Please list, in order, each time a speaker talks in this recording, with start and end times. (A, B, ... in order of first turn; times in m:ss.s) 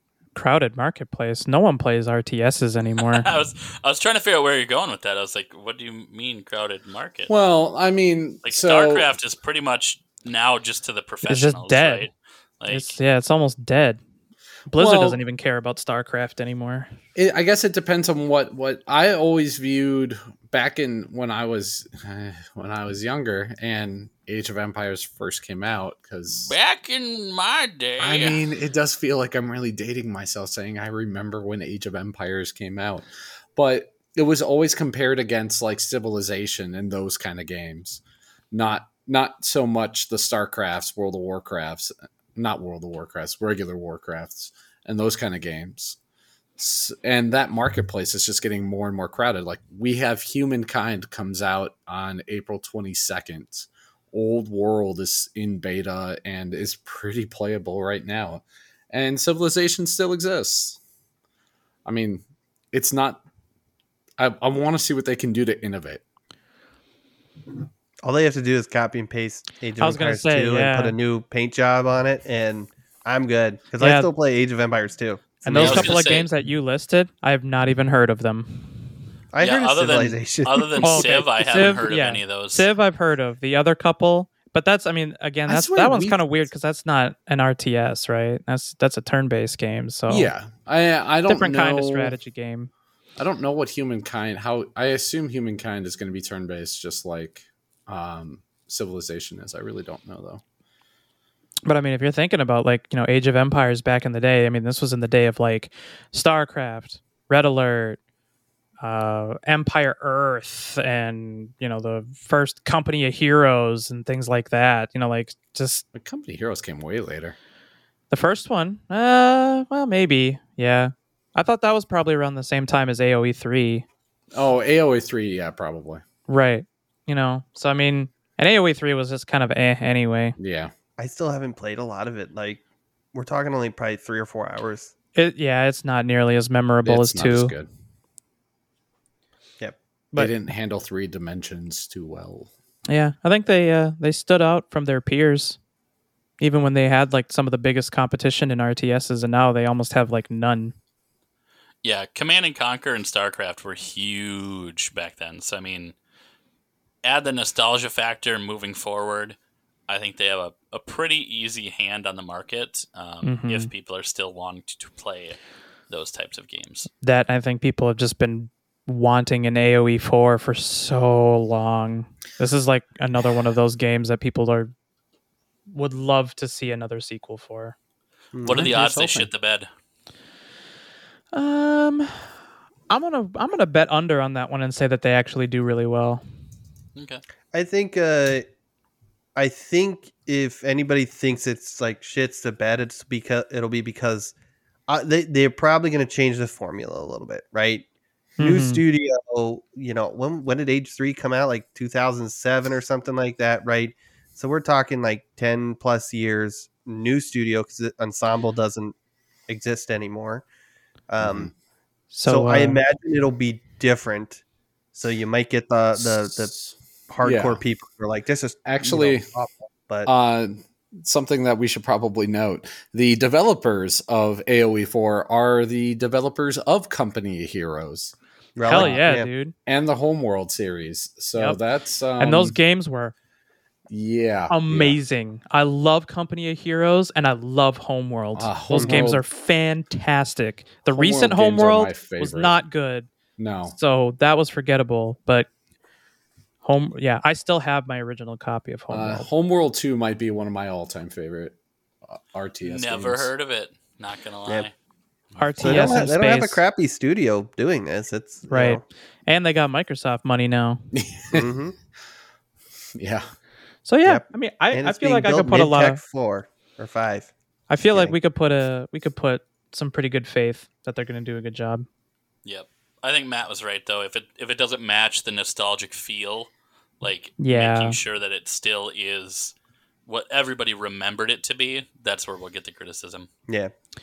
0:00.4-0:03.3 A
0:03.0-0:07.3 B
0:07.3-0:09.1 C
0:08.4-0:13.0 B
0:11.3-0:12.1 A
0:12.7-0:14.0 A
0:14.7-0:16.9 A
0:14.7-0:15.2 C
0:17.2-0:26.5 C
0:26.4-0:28.4 B
0:28.0-0:46.0 C
0:46.6-1:00.8 C
1:01.8-1:03.2 C
1:04.2-1:06.0 C
1:08.0-1:16.0 D
1:09.8-1:11.0 A
1:13.8-1:14.1 A
1:15.4-1:18.9 A
1:15.6-1:16.3 B
1:19.3-1:21.8 D
1:19.4-1:22.7 B
1:20.8-1:30.3 A
1:25.5-1:26.4 C
1:30.1-1:32.2 C
1:31.3-1:32.7 A
1:33.2-1:40.4 C
1:41.7-1:48.0 A
1:48.8-1:55.8 A
1:55.9-1:57.4 C
1:58.1-2:03.9 A
2:04.3-2:06.0 C
2:06.3-2:10.4 A
2:10.4-2:10.7 C
2:11.0-2:12.6 D
2:13.1-2:14.9 D
2:15.2-2:17.5 A
2:16.8-2:17.7 C
2:20.2-2:22.5 C
2:22.9-2:25.6 A
2:26.4-2:30.8 A
2:31.8-2:36.0 B
2:37.0-2:39.4 B
2:39.9-2:45.4 B
2:43.2-2:43.7 A
2:45.9-2:46.9 B
2:47.0-2:54.7 A
2:55.7-2:57.8 A
2:58.3-2:58.7 D
2:58.4-2:59.7 B
2:58.5-2:59.3 C
3:01.3-3:02.3 A
3:02.9-3:06.2 A
3:07.0-3:07.2 B
3:07.5-3:08.5 D
3:09.4-3:14.3 D
3:14.9-3:17.8 D
3:18.4-3:18.8 A
3:18.4-3:29.0 D
3:29.5-3:30.4 D
3:31.1-3:31.5 D
3:31.2-3:31.5 C
3:32.1-3:32.8 A
3:32.3-3:34.4 D
3:35.0-3:36.5 D
3:36.0-3:37.6 C
3:37.1-3:40.1 D
3:38.6-3:39.3 C
3:40.1-3:48.1 C
3:48.6-3:49.3 D
3:48.6-3:49.5 A
3:48.7-3:49.0 C
3:49.7-3:52.6 C
3:52.2-3:53.1 A
3:53.9-3:55.0 C
3:54.5-4:03.1 A
3:58.4-3:59.2 C
3:58.8-3:59.1 D
4:00.9-4:02.5 C
4:03.4-4:03.8 C
4:03.7-4:05.5 A
4:06.6-4:09.3 A
4:08.9-4:11.6 C
4:12.1-4:13.3 C
4:12.6-4:14.7 B
4:15.4-4:16.6 A
4:15.6-4:16.1 C
4:15.6-4:18.8 D
4:18.5-4:20.8 A
4:20.9-4:21.5 C
4:21.3-4:21.8 D
4:23.0-4:23.2 C
4:23.8-4:26.0 A
4:24.0-4:27.3 D
4:27.7-4:31.9 A
4:32.4-4:39.5 B
4:37.4-4:38.0 A
4:40.1-4:43.3 B